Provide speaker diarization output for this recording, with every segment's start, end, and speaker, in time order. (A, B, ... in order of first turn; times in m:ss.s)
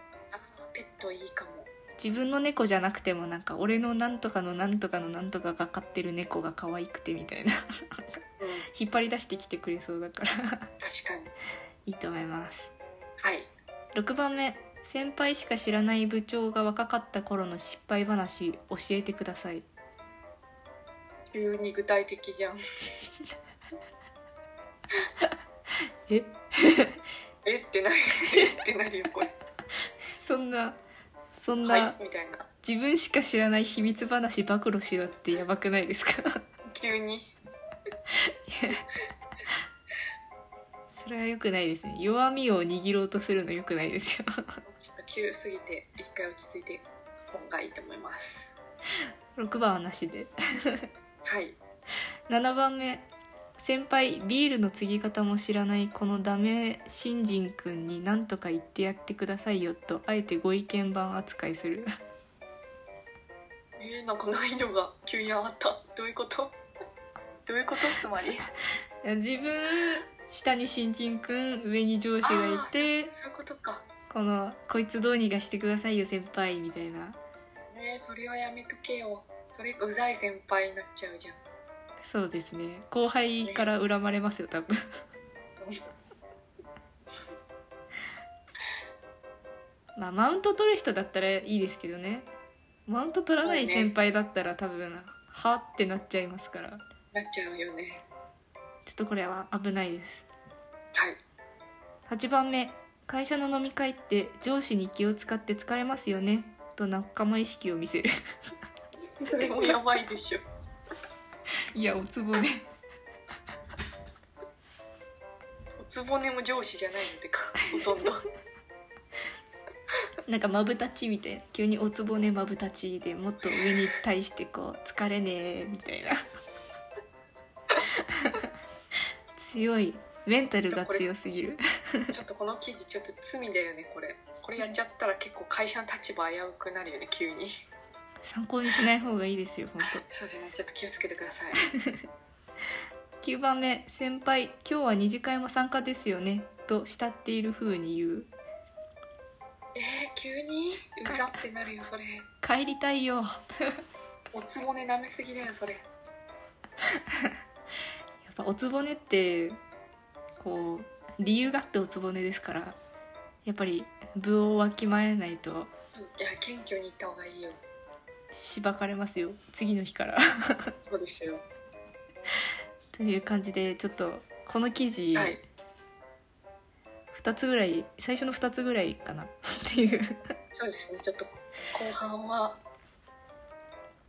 0:00.3-0:01.7 A
0:02.0-0:08.2 B
0:08.4-0:08.7 A
0:08.7-0:10.7 B
0:10.8-0:11.3 A
0:11.9-0:12.7 B
0:13.2-0:13.5 A
0:14.0-0:19.6 B
0:21.3-0:22.6 A
0:26.1-0:27.0 B
0:27.4-0:29.3 A
0:30.1-0:30.8 B
0:31.4-0:32.0 B
0:31.6-0:32.5 A
0:32.6-0:36.4 B
0:36.7-0:37.3 A
0:38.2-0:38.8 B
0:40.9-0:44.6 B
0:44.7-0:48.5 A
0:49.4-0:50.9 B
0:51.2-0:51.6 A
0:52.3-1:01.9 B
1:03.8-1:06.6 A
1:07.4-1:08.4 A
1:09.0-1:13.1 B
1:12.2-1:13.9 A
1:14.1-1:17.2 B
1:17.7-1:21.4 A
1:22.0-1:24.8 B
1:30.0-1:32.3 B
1:32.9-1:36.8 B
1:33.4-1:33.9 A
1:37.1-1:38.0 A
1:38.8-1:40.2 B
1:42.1-1:48.1 B
1:49.2-1:50.4 A
1:51.7-1:52.7 B
1:55.8-1:58.2 A
2:00.3-2:06.2 B
2:08.0-2:08.4 B
2:09.4-2:12.1 B
2:10.7-2:11.1 A
2:12.1-2:17.5 A
2:18.2-2:20.0 B
2:19.8-2:21.6 A
2:23.2-2:28.3 B
2:29.8-2:32.2 A
2:32.4-2:33.8 B
2:34.3-2:35.8 A
2:38.2-2:39.6 B
2:40.4-2:42.8 B
2:43.4-2:45.7 B
2:46.0-2:47.6 A
2:48.3-2:50.7 B
2:50.8-2:51.4 A
2:52.9-2:55.4 B
2:55.1-2:55.4 A
2:57.1-3:00.3 B
3:00.5-3:02.6 A